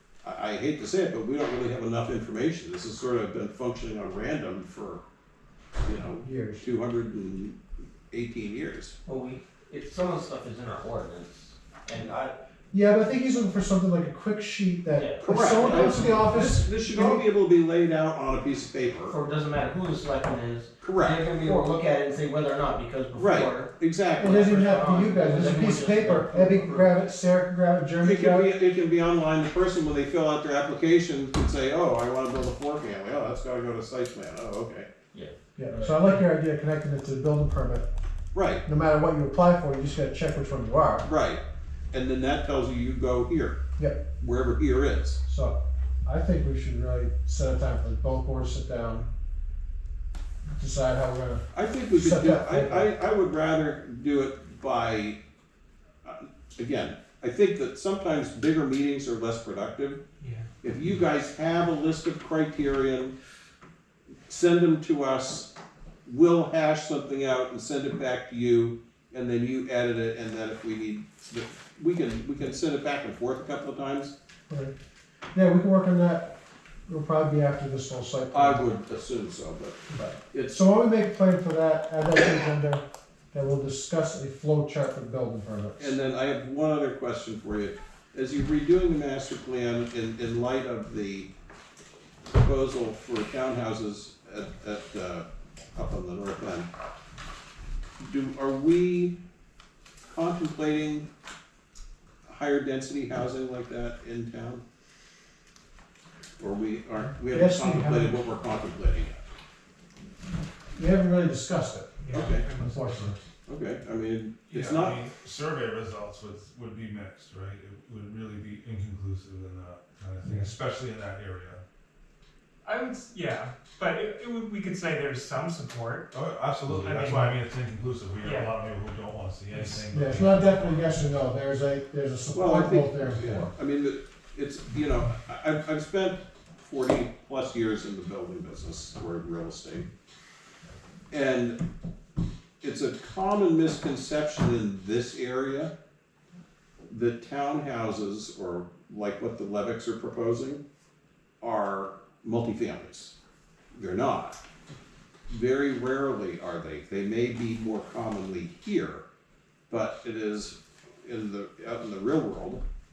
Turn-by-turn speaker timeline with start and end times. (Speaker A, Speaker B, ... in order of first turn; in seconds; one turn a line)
Speaker A: 0.2-5.0
Speaker A: 5.8-7.6
Speaker B: 6.2-6.7
Speaker A: 8.1-8.9
Speaker C: 9.1-12.4
Speaker B: 12.7-17.2
Speaker C: 14.9-16.3
Speaker A: 15.2-19.1
Speaker C: 19.1-27.1
Speaker A: 20.8-21.3
Speaker A: 23.1-24.5
Speaker B: 24.2-28.5
Speaker A: 28.0-34.9
Speaker C: 35.1-36.2
Speaker B: 35.6-37.9
Speaker A: 38.3-38.6
Speaker B: 38.6-41.1
Speaker A: 41.0-43.6
Speaker B: 43.8-44.0
Speaker A: 44.2-45.2
Speaker B: 45.2-49.1
Speaker B: 50.5-52.9
Speaker A: 51.5-55.2
Speaker A: 56.0-60.0
Speaker D: 60.2-60.5
Speaker A: 60.6-63.1
Speaker A: 64.3-65.5
Speaker A: 66.0-74.1
Speaker B: 75.3-76.3
Speaker B: 76.9-78.6
Speaker A: 78.3-80.6
Speaker B: 79.9-86.0
Speaker A: 85.8-91.3
Speaker A: 92.3-96.7
Speaker A: 98.0-99.2
Speaker A: 100.1-101.1
Speaker A: 102.3-104.6
Speaker A: 106.4-109.3
Speaker B: 107.3-108.2
Speaker B: 110.7-113.2
Speaker D: 112.0-113.1
Speaker A: 112.1-112.5
Speaker A: 113.5-115.0
Speaker E: 114.5-121.6
Speaker B: 120.2-120.5
Speaker D: 122.6-126.1
Speaker E: 126.1-130.8
Speaker D: 126.7-127.4
Speaker D: 128.2-128.5
Speaker D: 129.5-129.8
Speaker B: 129.9-133.5
Speaker A: 132.3-139.9
Speaker A: 141.1-141.6
Speaker A: 142.6-145.7
Speaker A: 146.9-150.6
Speaker A: 151.4-153.1
Speaker A: 153.7-154.4
Speaker A: 155.3-159.0
Speaker A: 159.7-162.6